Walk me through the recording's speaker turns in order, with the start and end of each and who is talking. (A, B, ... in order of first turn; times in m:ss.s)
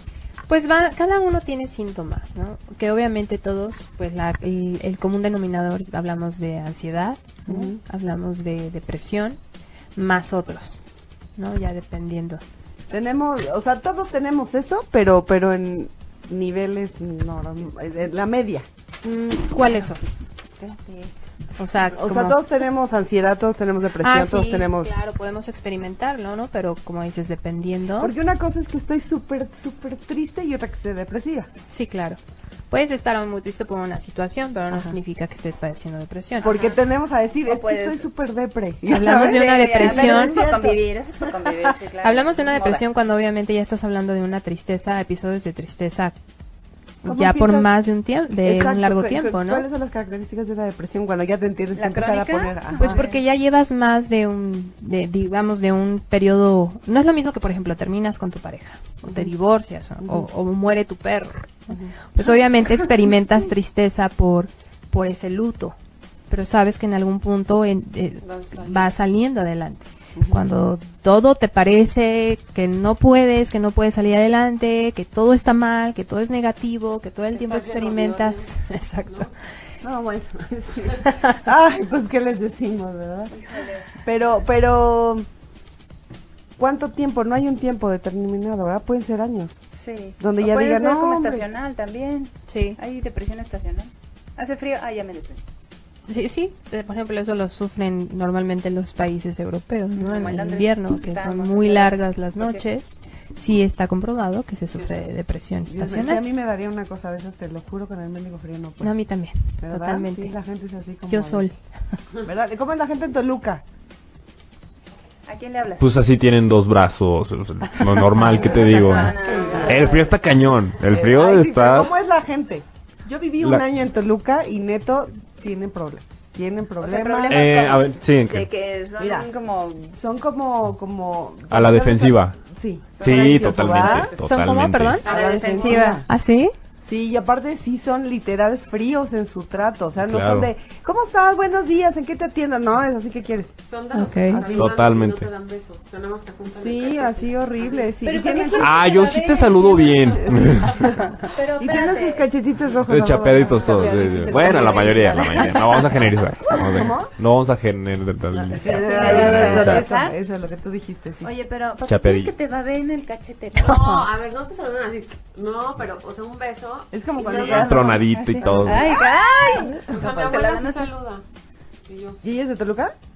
0:00.5-0:09.4 A
0:07.5-0:07.8 B
0:10.0-0:10.8 A
0:11.4-0:12.4 A
0:12.9-0:18.6 B
0:19.0-0:20.0 A
0:19.6-0:20.0 C
0:20.6-0:21.1 C
0:21.6-0:22.4 A
0:21.9-0:24.9 B
0:24.0-0:28.1 A
0:28.0-0:31.5 B
0:31.7-0:32.2 A
0:32.7-0:36.6 A
0:34.7-0:35.0 B
0:36.4-0:41.7 B
0:37.4-0:38.0 C
0:38.9-0:40.4 A
0:39.0-0:42.8 C
0:42.0-0:46.1 A
0:47.0-0:49.7 A
0:47.0-0:47.7 B
0:48.4-0:53.0 B
0:51.7-0:53.2 C
0:52.8-1:05.8 A
1:01.7-1:01.9 B
1:06.3-1:19.3 A
1:08.2-1:08.9 D
1:10.2-1:10.4 B
1:17.3-1:18.5 D
1:19.8-1:23.3 B
1:23.3-1:23.9 C
1:24.0-1:25.3 B
1:26.6-1:29.6 B
1:29.7-1:35.4 C
1:30.2-1:31.4 B
1:32.5-1:32.8 A
1:36.1-1:46.2 A
1:40.0-1:42.6 C
1:44.7-1:45.0 D
1:45.7-1:48.9 B
1:48.8-1:50.3 A
1:49.6-1:51.4 B
1:51.1-1:52.0 A
1:52.2-1:53.6 B
1:55.3-1:56.0 C
1:55.8-2:01.9 E
1:58.4-2:00.1 C
1:58.5-2:00.1 B
2:00.8-2:07.6 B
2:06.8-2:09.9 C
2:07.3-2:08.5 E
2:09.0-2:09.3 B
2:09.9-2:14.1 B
2:11.5-2:12.4 E
2:13.0-2:13.8 C
2:13.0-2:15.0 E
2:14.2-2:15.0 A
2:15.0-2:16.0 D
2:15.0-2:16.0 C
2:15.0-2:16.0 B
2:16.0-2:16.5 A
2:16.8-2:23.5 B
2:20.1-2:20.5 E
2:23.7-2:27.9 D
2:23.9-2:24.4 A
2:24.3-2:24.8 B
2:24.4-2:25.3 E
2:26.5-2:28.8 B
2:28.0-2:30.3 C
2:28.6-2:30.9 E
2:30.2-2:35.2 B
2:31.2-2:32.3 C
2:32.9-2:39.8 E
2:33.5-2:35.8 C
2:33.7-2:35.1 D
2:36.7-2:37.1 B
2:38.3-2:41.3 B
2:38.6-2:40.2 C
2:38.9-2:39.6 A
2:41.2-2:43.9 C
2:41.8-2:42.3 E
2:43.6-2:48.0 D
2:43.6-2:44.0 A
2:46.9-2:48.9 B
2:47.3-2:48.9 E
2:47.4-2:50.9 C
2:49.7-2:50.4 B
2:49.9-2:51.2 D
2:51.9-2:52.2 D
2:52.2-2:52.9 B